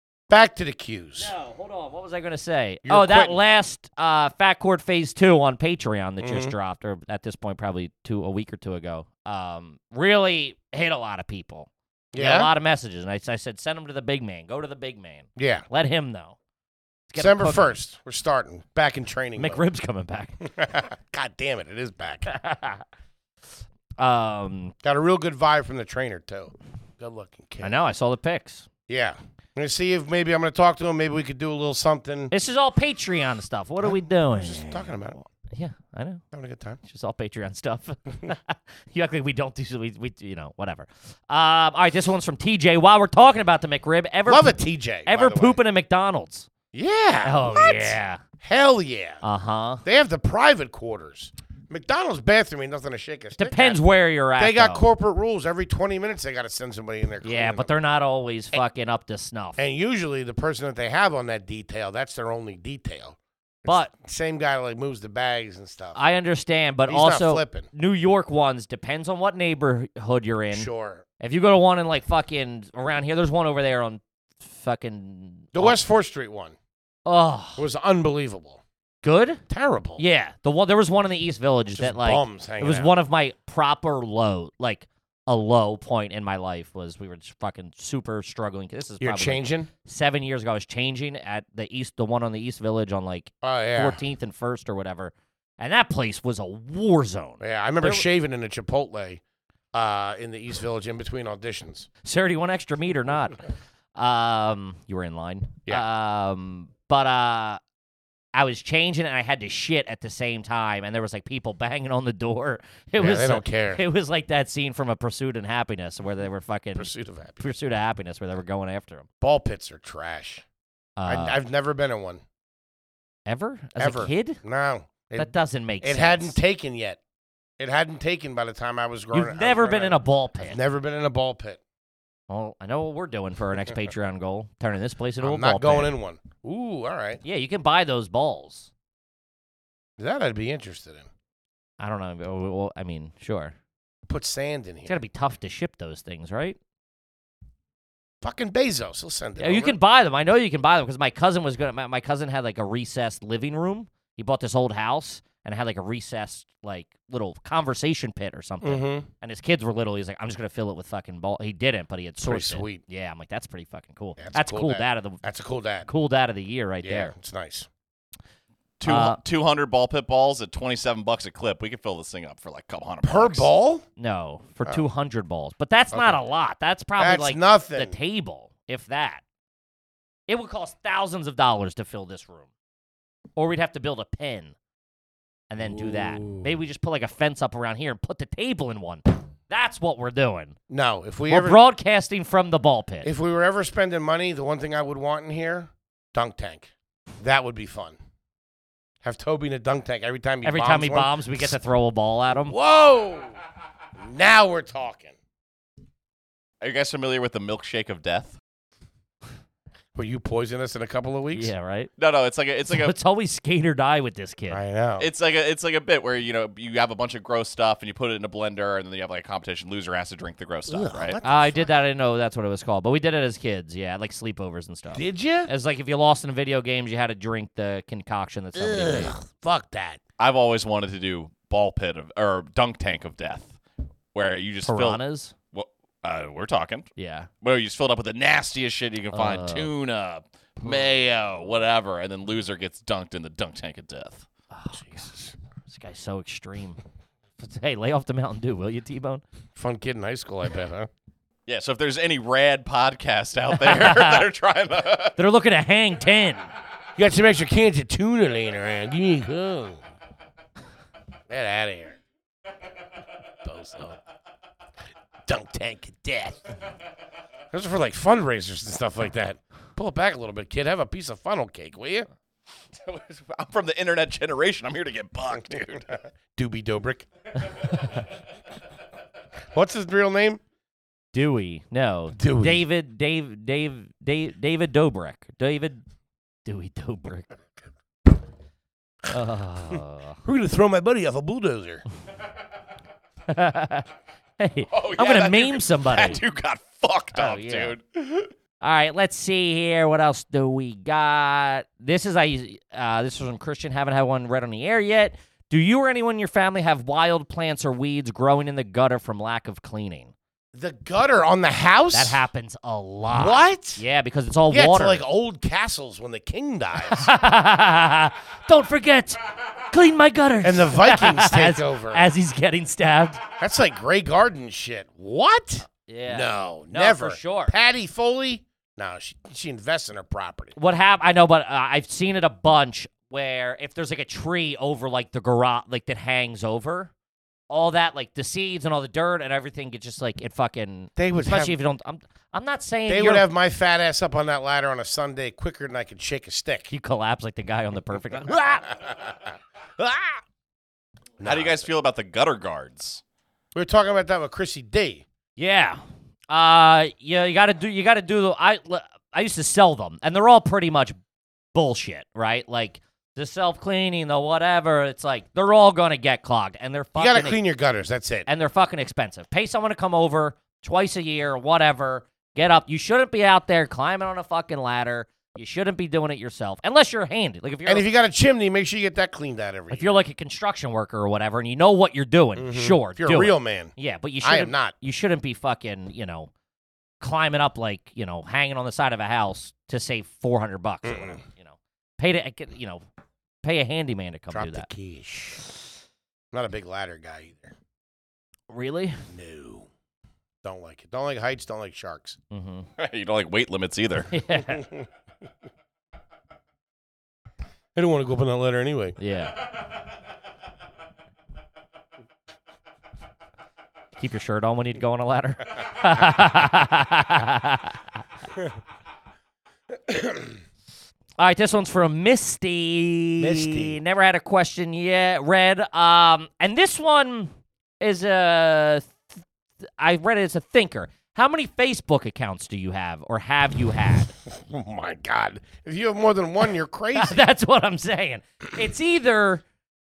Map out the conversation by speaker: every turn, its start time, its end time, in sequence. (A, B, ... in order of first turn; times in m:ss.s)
0:00.3-0:01.3 A
0:01.2-0:16.4 B
0:02.9-0:03.4 A
0:06.2-0:06.5 A
0:12.1-0:12.5 A
0:15.4-0:15.6 A
0:17.1-0:17.7 B
0:17.2-0:19.6 A
0:19.4-0:20.4 B
0:20.4-0:22.3 A
0:22.3-0:22.8 B
0:24.0-0:24.7 B
0:24.8-0:27.7 A
0:27.6-0:28.6 B
0:28.9-0:32.3 A
0:32.3-0:34.9 B
0:33.8-0:35.3 A
0:35.5-0:36.2 B
0:36.3-0:36.8 A
0:36.8-0:46.5 B
0:44.3-0:45.6 A
0:46.7-0:49.2 A
0:47.2-0:48.2 B
0:49.2-0:49.8 B
0:49.8-0:53.8 A
0:53.4-0:54.8 B
0:54.4-0:57.7 A
0:57.2-0:59.6 B
0:59.6-1:06.0 A
1:03.6-1:03.9 B
1:06.0-1:10.7 B
1:06.9-1:07.7 A
1:10.5-1:11.0 A
1:11.2-1:15.8 B
1:15.5-1:16.6 A
1:17.0-1:17.6 B
1:17.6-1:18.6 A
1:19.0-1:19.4 B
1:19.5-1:20.0 A
1:20.0-1:38.0 B
1:21.7-1:22.9 A
1:29.0-1:29.7 A
1:33.4-1:34.0 A
1:37.4-1:39.2 A
1:39.7-1:41.9 A
1:42.0-1:43.4 B
1:44.0-1:47.6 B
1:48.3-1:56.9 B
1:53.0-1:53.8 A
1:56.7-1:57.4 A
1:57.4-1:59.0 B
1:59.2-2:00.4 A
2:01.0-2:01.4 B
2:01.0-2:02.2 A
2:03.3-2:04.4 B
2:03.8-2:07.0 A
2:05.2-2:06.3 B
2:07.6-2:11.6 A
2:09.1-2:10.6 B
2:12.3-2:15.9 B
2:15.2-2:17.2 A
2:17.2-2:18.7 B
2:20.0-2:21.1 A
2:21.8-2:23.5 B
2:24.1-2:25.0 A
2:24.9-2:26.6 B
2:28.2-2:29.8 A
2:29.4-2:45.2 B
2:38.6-2:39.1 A
2:42.2-2:42.8 A
2:44.2-2:45.9 A
2:45.9-2:47.1 B
2:46.8-2:47.7 A
2:48.8-2:53.5 C
2:48.8-2:49.2 B
2:53.0-2:53.8 A
2:54.0-2:59.2 B
2:55.9-2:56.2 A
2:57.0-2:57.9 A
3:00.3-3:02.4 B
3:03.4-3:04.5 B
3:05.5-3:10.6 B
3:05.6-3:06.5 A
3:10.7-3:11.6 A
3:11.3-3:13.1 B
3:13.0-3:16.7 A
3:17.2-3:18.0 A
3:19.0-3:21.5 A
3:20.4-3:22.6 B
3:22.4-3:23.4 A
3:24.0-3:25.1 A
3:26.6-3:28.4 C
3:30.0-3:31.5 A
3:31.3-3:31.9 B
3:32.0-3:32.9 C
3:32.7-3:34.6 B
3:34.5-3:35.1 A
3:35.0-3:41.2 C
3:40.7-3:41.7 A
3:41.2-3:49.1 B
3:44.9-3:45.5 A
3:48.6-3:50.0 A
3:50.2-3:53.6 C
3:54.1-3:55.0 C
3:54.6-3:55.3 B
3:55.5-3:56.9 C
3:57.0-3:57.3 B
3:57.4-4:04.3 C
3:59.1-3:59.7 B
4:04.5-4:05.0 B
4:04.7-4:05.3 A
4:05.7-4:06.8 B
4:07.4-4:09.2 B
4:09.6-4:10.9 A
4:11.5-4:15.2 C
4:13.5-4:14.3 B
4:15.2-4:16.4 B
4:17.0-4:19.8 A
4:21.3-4:22.0 A
4:23.4-4:24.0 A
4:25.3-4:26.4 A
4:27.5-4:32.1 A
4:32.7-4:35.9 C
4:36.3-4:37.1 A
4:39.5-4:40.4 A
4:41.1-4:45.8 B
4:42.1-4:42.6 A
4:46.4-4:47.3 B
4:49.1-4:50.2 B
4:50.2-4:51.8 A
4:53.3-4:53.9 B
4:54.4-4:56.2 B
4:54.7-4:58.3 C
4:57.1-4:57.7 B
4:58.6-5:10.1 B
5:10.5-5:12.2 A
5:11.9-5:15.0 B
5:13.1-5:13.8 A
5:14.5-5:17.1 A
5:16.8-5:23.2 B
5:20.4-5:22.1 A
5:23.4-5:30.6 A
5:25.7-5:27.5 B
5:30.6-5:36.9 B
5:37.5-5:43.3 B
5:41.0-5:41.5 A
5:42.9-5:46.7 A
5:46.7-5:48.7 B
5:48.7-5:49.1 A
5:49.8-5:50.2 A
5:51.2-5:51.6 A
5:51.2-5:53.0 C
5:53.5-5:55.0 A
5:55.4-6:01.0 B
6:01.5-6:07.4 B
6:07.0-6:08.3 A
6:08.3-6:17.9 B
6:17.6-6:20.0 A
6:19.7-6:26.3 B
6:22.4-6:24.7 A
6:27.0-6:32.8 B
6:30.8-6:31.2 A
6:33.4-6:34.7 B
6:34.3-6:35.4 A
6:36.3-6:37.5 A
6:38.5-6:39.0 B
6:39.1-6:39.7 A
6:40.4-6:42.2 A
6:42.3-6:42.7 B
6:42.8-6:44.1 C
6:44.1-6:44.6 B
6:44.6-6:44.9 A
6:47.7-6:49.0 A
6:49.0-6:49.4 B
6:54.0-6:57.8 B
6:59.9-7:00.2 A
7:01.2-7:07.3 B
7:03.2-7:03.8 A
7:07.8-7:09.0 B
7:09.8-7:14.1 B
7:14.3-7:17.2 A
7:17.0-7:19.4 B